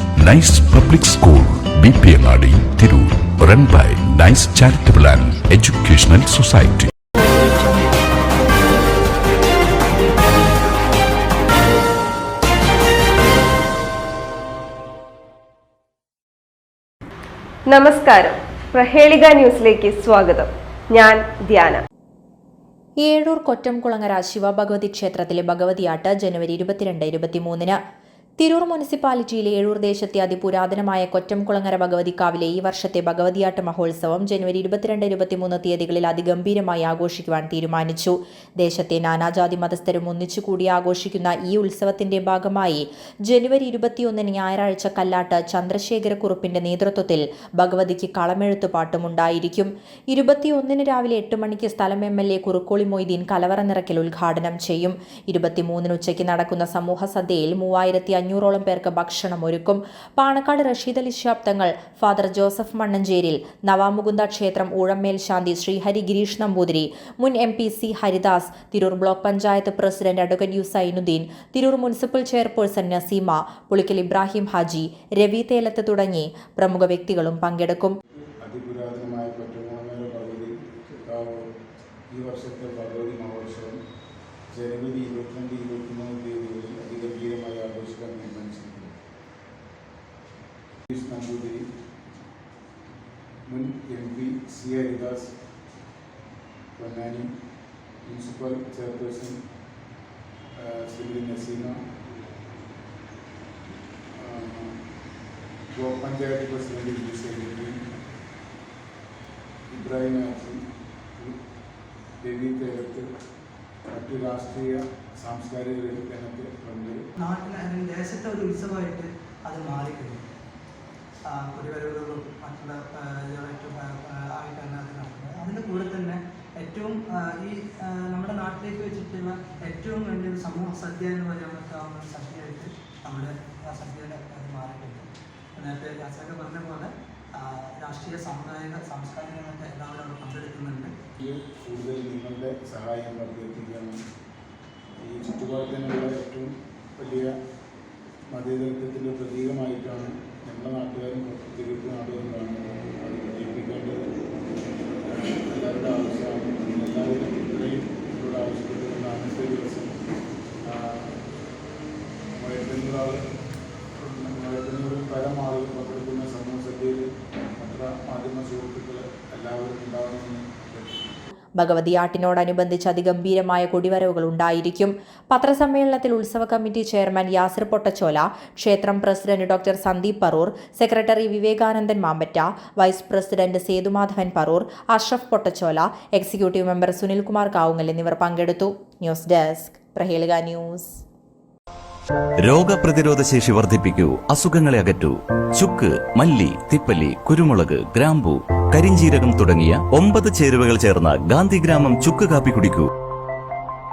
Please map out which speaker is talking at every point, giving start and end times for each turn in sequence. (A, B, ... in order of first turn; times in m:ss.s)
0:00.2-0:06.9 A
0:17.7-0:21.8 B
0:23.0-0:27.8 C
0:28.4-1:17.9 C
1:18.4-1:21.5 D
1:22.1-1:23.8 D
1:24.5-1:28.9 D
1:30.9-1:31.7 D
1:33.5-1:35.4 D
1:36.8-1:37.3 D
1:38.0-1:39.4 D
1:40.6-1:41.8 D
1:44.1-1:44.8 D
1:45.7-1:47.8 D
1:49.7-1:50.6 D
1:52.2-1:53.1 D
1:53.9-1:57.0 D
1:57.2-2:00.2 E
2:01.3-2:20.9 E
2:21.2-2:24.0 D
2:25.0-2:27.3 D
2:28.3-2:34.0 D
2:35.1-2:39.9 D
2:40.6-2:41.1 D
2:42.4-2:43.2 D
2:44.0-2:47.1 D
2:47.6-2:51.1 D
2:51.6-3:11.0 C
3:12.4-3:22.9 F